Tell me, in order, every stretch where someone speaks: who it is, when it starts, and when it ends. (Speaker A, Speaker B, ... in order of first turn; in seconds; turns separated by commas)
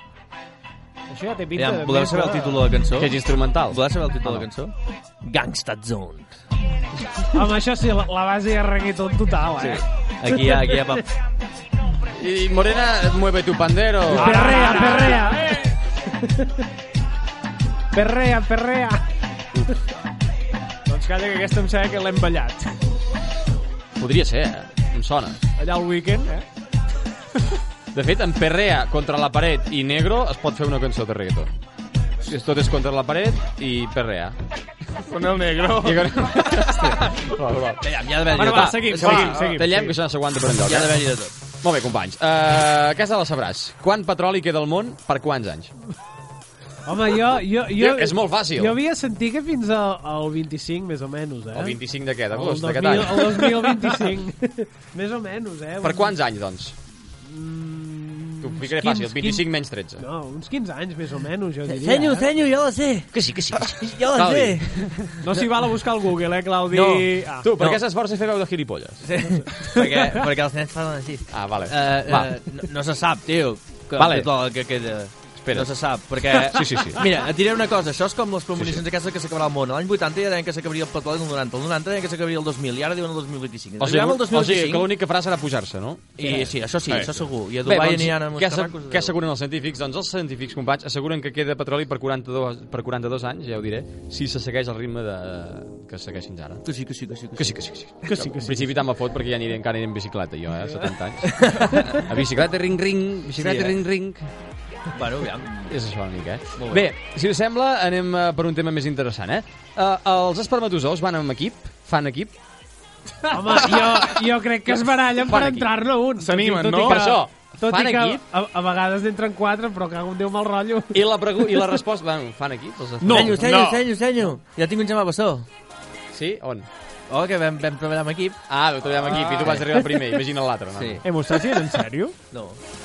Speaker A: 1.1-2.7, Speaker B: 1.6-6.3, Speaker C: 2.9-4.5, Speaker D: 7.3-10.9, Speaker B: 9.6-11.1, Speaker C: 12.1-15.2, Speaker D: 14.1-16.6, Speaker A: 14.1-15.7, Speaker D: 17.9-19.0, Speaker A: 20.9-22.7, Speaker C: 23.9-25.4, Speaker A: 25.6-26.4, Speaker C: 27.9-31.5, Speaker C: 32.2-34.4, Speaker E: 35.1-36.3, Speaker C: 35.7-41.1, Speaker B: 37.8-39.5, Speaker A: 38.3-40.0, Speaker B: 40.6-41.3, Speaker C: 41.6-45.7, Speaker D: 46.9-51.8, Speaker C: 47.8-48.8, Speaker C: 51.5-53.8, Speaker D: 52.3-56.1, Speaker C: 55.8-56.8, Speaker D: 57.2-58.5, Speaker C: 58.4-60.0, Speaker A: 58.8-59.4, Speaker D: 60.0-62.3, Speaker B: 61.7-65.2, Speaker C: 63.1-65.1, Speaker A: 65.2-67.5, Speaker B: 66.7-67.8, Speaker C: 67.4-69.1, Speaker B: 69.0-84.9, Speaker C: 71.3-72.3, Speaker C: 74.0-74.3, Speaker C: 75.4-77.1, Speaker C: 78.5-78.8, Speaker C: 83.8-86.5, Speaker B: 86.2-89.1, Speaker E: 86.9-87.2, Speaker C: 87.6-96.6, Speaker B: 96.6-97.6, Speaker C: 97.3-104.2, Speaker A: 98.0-98.8, Speaker B: 101.3-102.0, Speaker B: 103.4-103.8, Speaker B: 104.9-105.7, Speaker C: 105.7-112.3, Speaker B: 106.6-106.9, Speaker D: 113.3-121.0, Speaker C: 115.2-115.7, Speaker E: 116.2-117.2, Speaker C: 116.8-118.2, Speaker C: 120.9-123.6, Speaker A: 123.0-123.3, Speaker B: 123.1-125.5, Speaker E: 123.5-123.8, Speaker C: 126.1-126.7, Speaker B: 127.1-128.4, Speaker C: 128.5-131.0, Speaker B: 128.9-130.1, Speaker B: 130.7-131.0, Speaker A: 131.0-132.1, Speaker B: 132.3-132.6